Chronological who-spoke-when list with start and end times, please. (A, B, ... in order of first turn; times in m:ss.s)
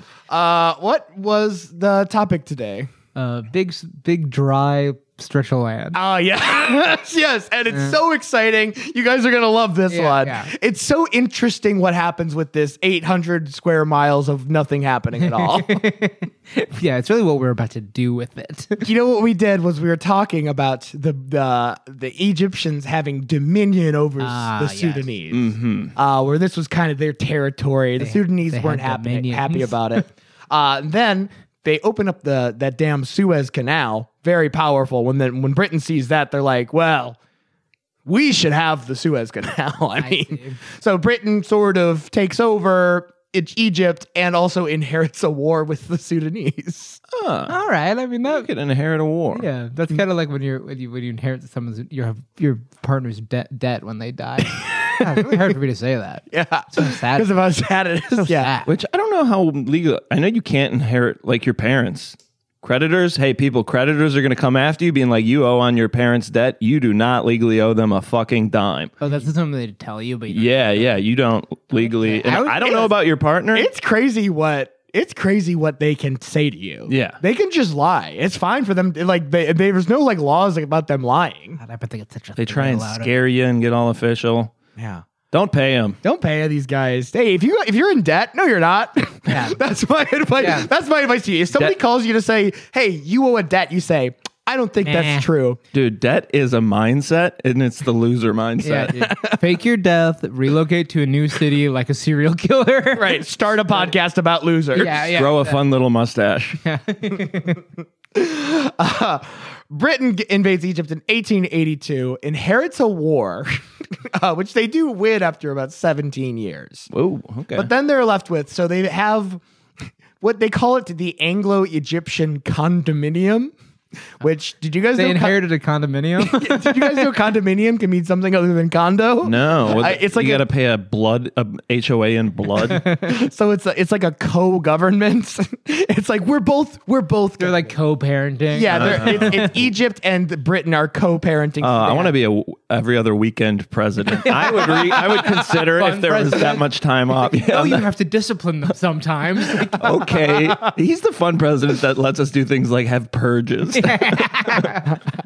0:00.3-0:02.9 A
0:03.2-0:06.0 B
0:05.9-0:15.8 A
0:07.7-0:08.0 B
0:09.9-0:10.5 B
0:15.2-0:18.9 B
0:18.8-0:37.2 A
0:24.2-0:25.1 B
0:25.3-0:25.9 C
0:28.0-0:30.0 B
0:38.1-0:47.0 A
0:40.0-0:40.6 B
0:47.1-0:47.5 C
0:47.5-0:48.5 B
0:48.2-0:49.5 C
0:49.3-0:57.3 B
0:54.5-0:55.5 A
0:56.3-0:58.5 A
0:58.2-0:58.7 B
0:58.7-1:08.9 C
1:09.0-1:10.9 B
1:10.3-1:13.7 C
1:11.7-1:12.9 B
1:12.4-1:12.9 A
1:13.5-1:21.6 A
1:16.9-1:17.2 C
1:21.6-1:23.2 B
1:22.4-1:24.5 C
1:24.8-1:25.1 A
1:25.3-1:26.0 C
1:26.0-1:35.6 A
1:29.3-1:29.6 B
1:30.4-1:30.7 B
1:34.8-1:35.3 B
1:35.7-1:39.1 C
1:38.6-1:43.2 B
1:39.0-1:39.4 A
1:43.0-1:45.1 A
1:44.7-1:45.6 B
1:45.1-1:46.6 C
1:46.6-1:47.6 B
1:48.1-1:56.9 A
1:56.9-1:57.7 C
1:57.5-1:59.4 A
2:00.2-2:03.5 A
2:04.2-2:05.4 A
2:05.0-2:07.1 B
2:06.2-2:10.5 A
2:09.2-2:12.9 C
2:12.7-2:13.1 B
2:13.0-2:17.7 A
2:17.4-2:19.5 B
2:18.5-2:22.1 A
2:18.7-2:19.7 C
2:21.6-2:27.9 C
2:24.2-2:26.6 B
2:27.2-2:30.7 B
2:29.7-2:34.7 C
2:33.8-2:35.0 B